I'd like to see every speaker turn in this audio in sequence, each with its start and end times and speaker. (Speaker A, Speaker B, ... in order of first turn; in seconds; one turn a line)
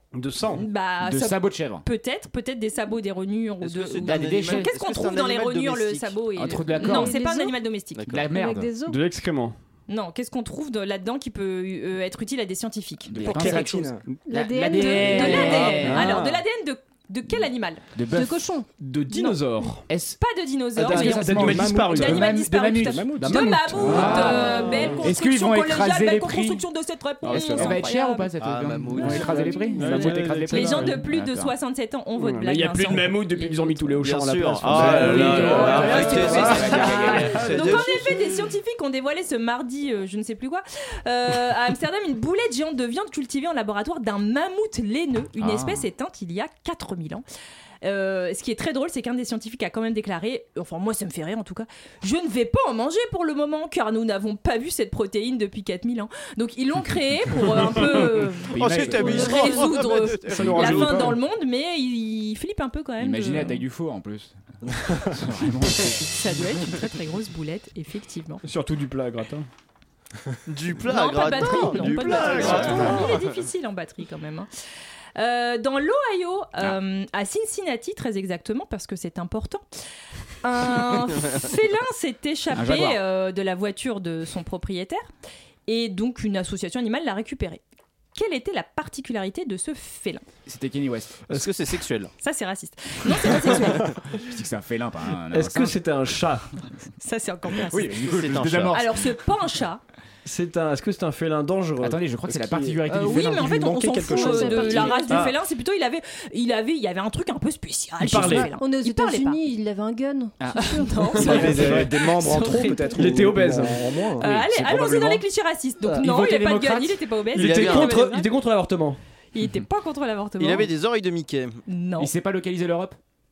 Speaker A: 0.1-0.6
Speaker B: 0.5-8.0
Speaker C: 1.0-1.8
Speaker D: 3.6-6.3
Speaker C: 4.0-4.7
Speaker C: 6.4-7.2
Speaker E: 6.8-7.6
Speaker D: 8.0-8.2
Speaker C: 8.1-8.7
Speaker E: 8.3-9.0
Speaker A: 8.9-9.6
Speaker B: 9.9-13.9
Speaker C: 13.1-16.2
Speaker F: 13.2-14.0
Speaker E: 14.3-16.0
Speaker B: 14.8-17.8
Speaker A: 15.1-16.4
Speaker C: 17.9-18.4
Speaker E: 18.1-18.6
Speaker A: 18.8-19.9
Speaker B: 19.1-19.4
Speaker C: 19.9-20.2
Speaker B: 20.2-28.3
Speaker A: 20.8-22.2
Speaker C: 20.8-26.6
Speaker F: 21.4-24.1
Speaker A: 23.2-25.0
Speaker C: 27.2-31.5
Speaker D: 28.4-29.5
Speaker B: 29.0-33.9
Speaker A: 29.0-31.0
Speaker A: 32.1-37.9
Speaker D: 34.0-37.9
Speaker C: 34.8-37.5
Speaker B: 34.8-47.2
Speaker C: 45.4-45.9
Speaker B: 47.8-63.6
Speaker C: 58.5-59.7
Speaker D: 58.5-60.8
Speaker C: 60.3-61.2
Speaker A: 60.4-61.1
Speaker C: 63.0-64.3
Speaker C: 64.9-66.1
Speaker B: 66.1-68.4
Speaker A: 68.4-69.5
Speaker D: 70.5-73.2
Speaker B: 70.9-74.5
Speaker C: 72.4-73.1
Speaker B: 75.2-79.7
Speaker B: 80.4-85.1
Speaker C: 82.5-83.0
Speaker B: 85.7-87.6
Speaker B: 88.1-90.2
Speaker C: 90.5-91.2
Speaker D: 91.3-92.1
Speaker B: 92.2-93.9
Speaker C: 94.3-95.8
Speaker A: 95.3-96.5
Speaker B: 97.0-98.0
Speaker C: 97.7-99.1
Speaker D: 98.0-98.8
Speaker B: 98.7-99.8
Speaker A: 100.2-102.7
Speaker C: 101.8-103.5
Speaker B: 102.9-109.4
Speaker F: 103.3-105.0
Speaker E: 104.0-105.2
Speaker A: 105.0-105.3
Speaker A: 108.0-108.5
Speaker E: 108.2-111.7
Speaker C: 110.4-110.7
Speaker B: 110.5-113.0
Speaker A: 111.2-114.0
Speaker F: 111.2-114.3
Speaker B: 114.2-118.3
Speaker A: 114.8-115.2
Speaker C: 116.0-117.0
Speaker A: 117.3-119.0
Speaker D: 117.3-118.1
Speaker B: 119.3-120.7
Speaker D: 120.4-121.6
Speaker B: 121.7-122.1
Speaker C: 122.0-123.0